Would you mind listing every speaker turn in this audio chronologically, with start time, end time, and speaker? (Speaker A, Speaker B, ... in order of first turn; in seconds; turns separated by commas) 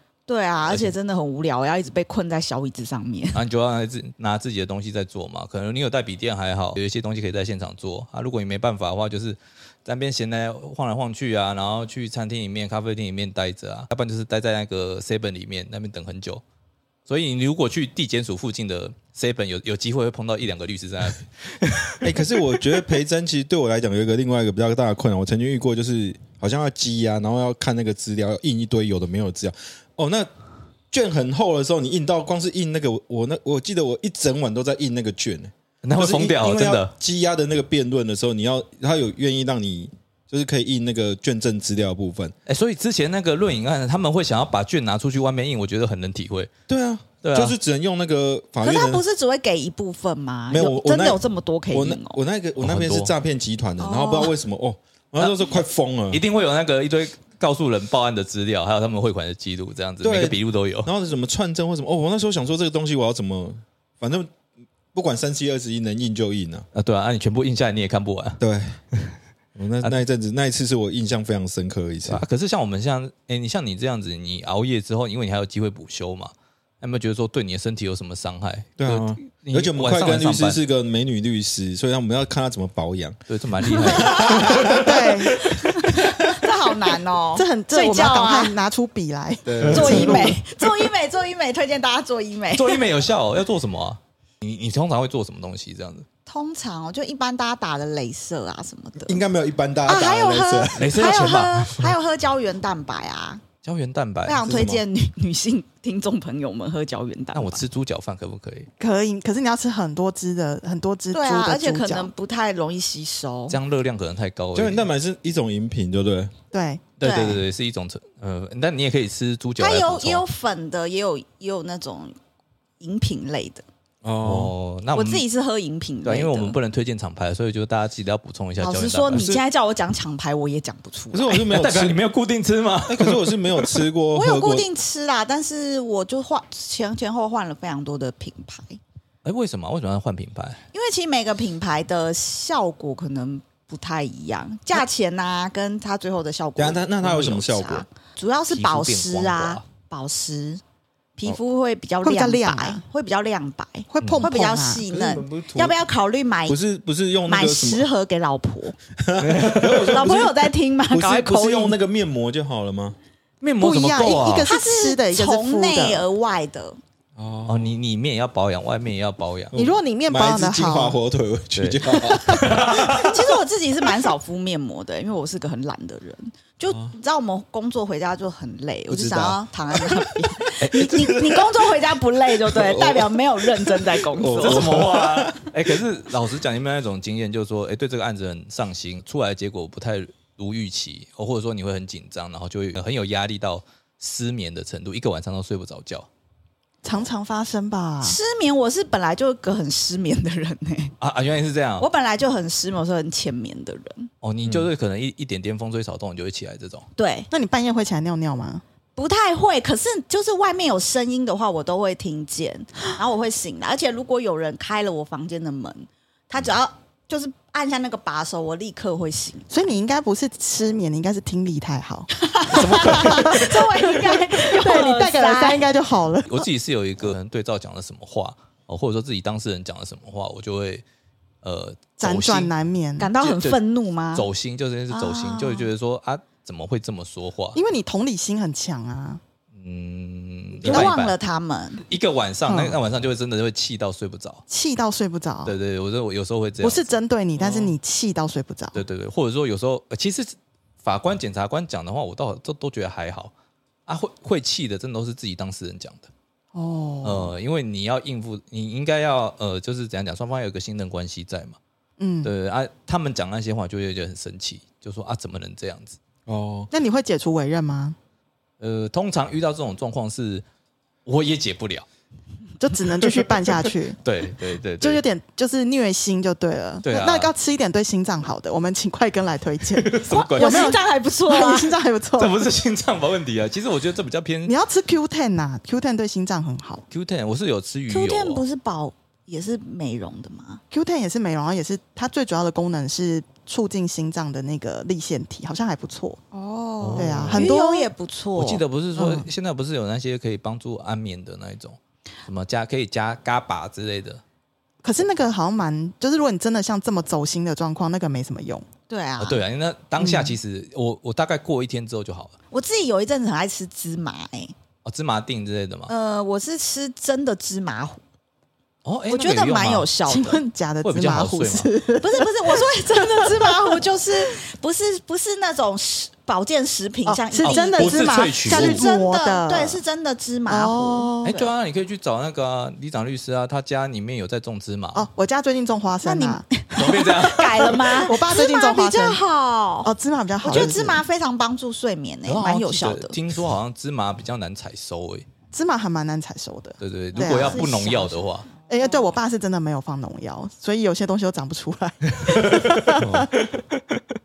Speaker A: 0.3-3.4, Speaker B: 0.7-0.9, Speaker B: 3.3-16.4, Speaker B: 17.1-22.4, Speaker C: 22.0-30.3, Speaker C: 30.9-42.3, Speaker B: 35.8-36.9, Speaker B: 42.5-46.5, Speaker C: 46.7-49.0, Speaker B: 47.2-47.5, Speaker A: 48.6-52.2, Speaker C: 50.5-56.2, Speaker B: 52.6-53.1, Speaker A: 53.8-54.3, Speaker B: 55.2-55.6, Speaker B: 56.1-60.9, Speaker C: 60.0-64.3, Speaker C: 64.9-66.7, Speaker B: 66.7-68.4, Speaker C: 68.4-68.8, Speaker C: 69.5-72.2, Speaker B: 72.1-80.6, Speaker C: 78.8-83.2, Speaker B: 83.3-84.8, Speaker A: 83.8-84.8, Speaker C: 83.8-86.4, Speaker D: 84.6-85.5, Speaker A: 85.5-88.5, Speaker D: 87.3-90.3, Speaker C: 89.4-90.4, Speaker B: 89.6-90.1, Speaker A: 89.7-92.8, Speaker B: 92.5-96.0, Speaker A: 96.3-99.2, Speaker C: 99.0-101.1, Speaker A: 99.8-103.4, Speaker B: 100.8-101.9, Speaker B: 103.6-104.6, Speaker A: 104.2-107.6, Speaker C: 104.4-104.8, Speaker B: 107.3-108.7, Speaker D: 108.8-112.1, Speaker A: 111.1-113.6, Speaker B: 113.5-114.8, Speaker C: 114.5-116.3, Speaker D: 116.5-116.8, Speaker B: 117.0-120.2, Speaker A: 117.0-117.4, Speaker A: 119.6-122.2, Speaker A: 122.8-123.6, Speaker C: 124.0-124.5, Speaker B: 124.2-125.2, Speaker A: 124.9-126.6, Speaker B: 126.0-129.3, Speaker A: 128.6-131.5, Speaker C: 129.1-129.4, Speaker C: 131.1-132.0, Speaker B: 131.5-133.8, Speaker C: 132.9-134.7, Speaker A: 134.1-138.8, Speaker B: 139.2-140.6, Speaker A: 140.7-150.6, Speaker C: 146.6-147.8, Speaker B: 148.5-149.6, Speaker A: 151.2-156.6, Speaker D: 152.0-152.8, Speaker D: 153.9-154.8, Speaker C: 154.9-155.8, Speaker C: 156.5-157.9, Speaker A: 157.3-158.7, Speaker C: 159.0-162.9, Speaker B: 159.2-160.2, Speaker A: 159.8-161.8, Speaker B: 163.4-164.5, Speaker D: 163.6-166.1, Speaker A: 164.5-166.8, Speaker C: 167.2-167.7, Speaker B: 167.5-169.5, Speaker C: 169.5-173.1, Speaker D: 169.5-171.0, Speaker B: 171.5-173.2, Speaker A: 172.8-184.7, Speaker C: 176.7-176.9, Speaker C: 178.9-180.1, Speaker B: 180.6-181.4, Speaker C: 182.4-185.5, Speaker B: 184.3-196.1, Speaker D: 196.8-198.2, Speaker A: 198.0-200.9, Speaker B: 201.0-201.8, Speaker A: 201.8-204.1, Speaker B: 204.2-206.8, Speaker A: 207.0-207.3, Speaker D: 207.3-208.6, Speaker A: 208.9-219.5, Speaker D: 219.5-226.5, Speaker A: 222.2-225.7, Speaker B: 222.5-223.4, Speaker B: 226.3-230.8, Speaker B: 231.4-232.5, Speaker D: 232.0-233.1, Speaker A: 233.0-234.2, Speaker B: 233.2-233.6, Speaker B: 234.1-237.6, Speaker A: 234.9-235.7, Speaker D: 237.5-239.2, Speaker B: 239.5-241.1, Speaker A: 240.6-241.8, Speaker B: 241.9-244.4, Speaker D: 242.5-242.8, Speaker D: 244.5-245.6, Speaker B: 245.4-246.9, Speaker D: 246.6-248.8, Speaker B: 247.4-247.7, Speaker B: 248.7-253.3, Speaker B: 253.9-256.1, Speaker D: 256.5-257.3, Speaker B: 257.0-261.6, Speaker D: 262.0-262.3, Speaker B: 262.2-266.0, Speaker C: 266.2-266.7, Speaker D: 266.7-267.9, Speaker B: 268.6-270.4, Speaker B: 271.1-271.9, Speaker D: 272.6-274.0, Speaker B: 274.0-275.0, Speaker D: 274.8-282.3, Speaker B: 276.8-277.3, Speaker B: 279.7-280.8, Speaker A: 280.1-281.7, Speaker B: 282.2-284.5, Speaker D: 284.4-286.8, Speaker B: 286.9-288.4, Speaker A: 287.9-290.6, Speaker D: 290.7-296.2, Speaker A: 296.3-298.6, Speaker B: 296.8-297.5, Speaker D: 296.9-297.9, Speaker B: 298.4-304.2, Speaker D: 298.9-299.3, Speaker D: 304.8-308.6, Speaker A: 308.9-309.4, Speaker B: 309.2-312.3, Speaker D: 310.0-310.4, Speaker A: 312.5-314.5, Speaker B: 314.8-315.9, Speaker A: 315.9-318.0, Speaker B: 318.8-319.9, Speaker A: 319.1-320.4, Speaker D: 320.1-323.8, Speaker B: 320.8-321.7, Speaker A: 322.0-331.1, Speaker D: 327.1-329.8, Speaker B: 327.4-328.9, Speaker D: 330.5-331.5, Speaker B: 331.2-335.1, Speaker D: 334.9-336.4, Speaker A: 336.0-339.9, Speaker B: 336.7-337.9, Speaker D: 338.0-339.2, Speaker D: 339.8-341.0, Speaker A: 340.4-343.1, Speaker B: 342.2-345.3, Speaker D: 345.5-347.8, Speaker B: 346.8-348.5, Speaker A: 347.1-348.2, Speaker D: 348.7-353.2, Speaker A: 348.8-349.1, Speaker B: 352.1-354.0, Speaker C: 353.0-353.3